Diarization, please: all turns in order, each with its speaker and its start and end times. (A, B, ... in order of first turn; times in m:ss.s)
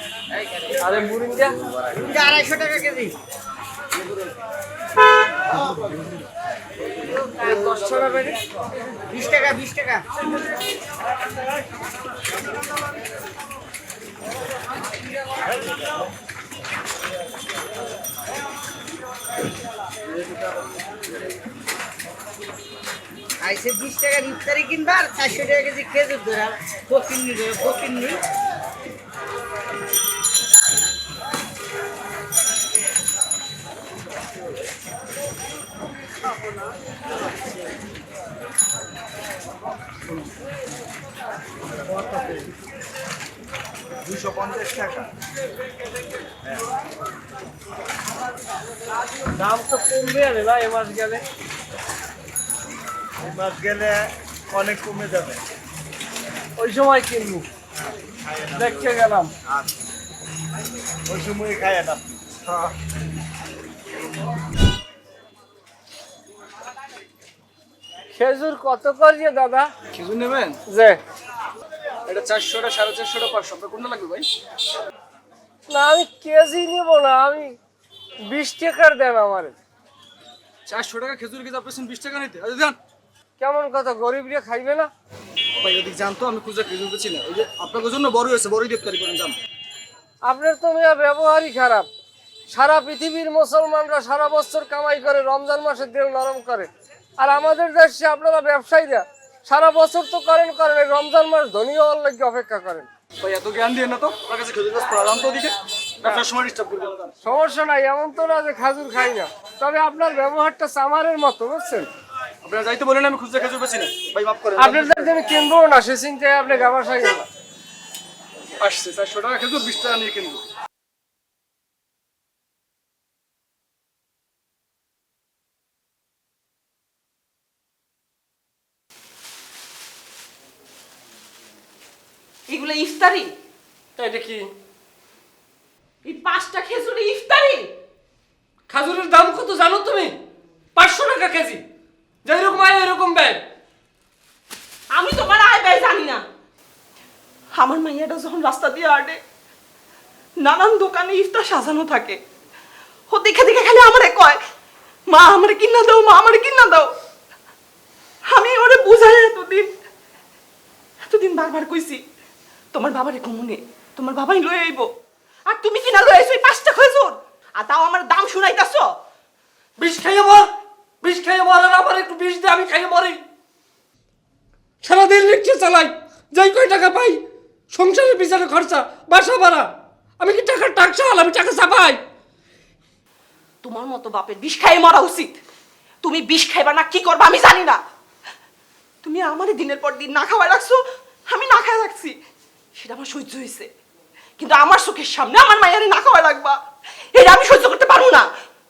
0:00.8-0:01.5 A
0:01.9-0:03.2 B
0:07.3-0:08.4 A
0:09.1-0:10.0 B
0:20.1-0:20.7 C
0:23.4-0:28.2 B
0:44.0-0:45.1 C
0:49.3-0:51.2 A
0:53.2-0:55.4 D
0:56.6-0:57.5 A
0:58.2-0:58.9 D
0:58.6-0:59.3 A
1:01.1-1:02.2 D
1:08.1-1:09.7 A
1:09.9-1:10.6 C
1:10.7-1:11.0 A
1:12.1-1:14.3 C
1:15.7-1:17.6 A
1:18.3-1:19.6 A
1:20.7-1:22.8 C
1:23.4-1:24.9 A
1:25.6-1:29.4 C
1:30.3-1:31.9 A
1:32.5-1:42.9 A
1:43.2-1:47.1 C
1:47.2-1:51.9 A
1:52.4-1:55.2 C
1:54.6-1:57.2 A
1:58.6-2:00.4 C
2:12.5-2:13.4 E
2:14.0-2:14.5 A
2:16.0-2:17.7 E
2:18.7-2:20.1 A
2:20.8-2:21.6 A
2:22.2-2:23.4 A
2:24.9-2:26.2 E
2:27.5-2:29.2 E
2:30.4-2:32.2 E
2:33.1-2:34.4 E
2:35.1-2:36.9 E
2:38.3-2:39.7 E
2:41.1-2:42.0 E
2:42.7-2:44.9 E
2:45.5-2:48.9 E
2:49.8-2:50.5 A
2:51.0-2:53.2 A
2:54.8-2:57.2 A
2:57.7-2:59.7 A
3:00.2-3:02.0 A
3:03.6-3:05.4 E
3:06.0-3:07.8 E
3:09.0-3:12.2 E
3:12.8-3:13.7 E
3:14.4-3:16.6 E
3:17.1-3:18.3 E